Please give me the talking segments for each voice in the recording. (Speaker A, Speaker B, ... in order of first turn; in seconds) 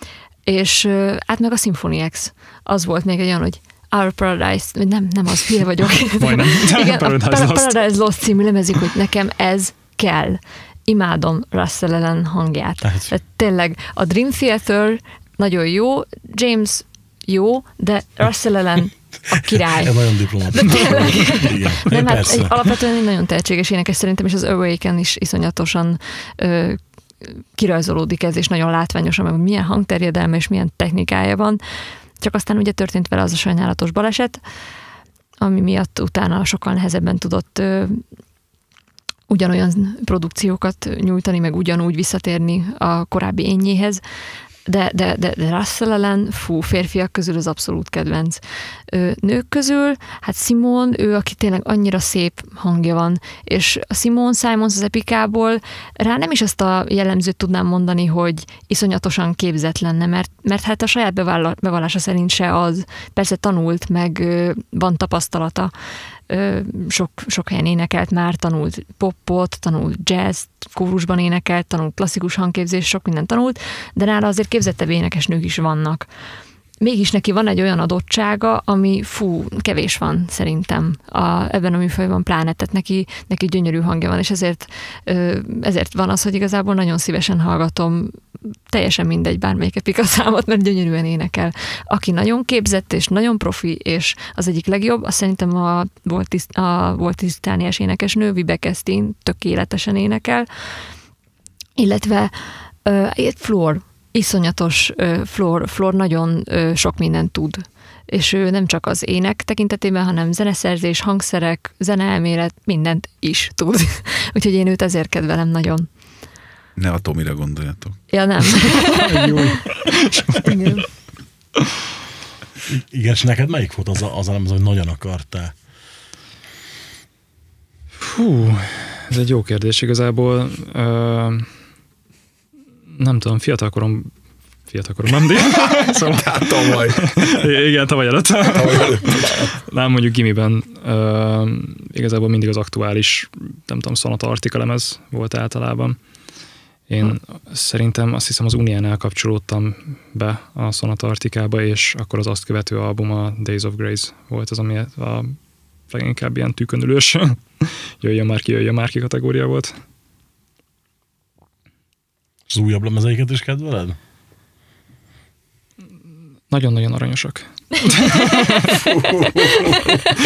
Speaker A: 0.5-31.6, 32.2-34.4, 35.4-38.0, 39.3-44.0, 44.6-65.7, 66.3-76.1, 76.8-100.5, 101.8-115.9, 118.1-119.6, 120.4-120.9
Speaker B: 6.2-7.8, 118.9-120.7, 128.0-131.5, 132.9-134.1, 134.7-146.0, 146.9-155.4, 155.9-159.8, 166.5-168.7
Speaker C: 12.8-13.1, 19.3-22.5, 122.7-125.5, 162.5-164.0
Speaker D: 116.8-118.0, 135.2-137.5, 138.5-139.5, 168.7-170.0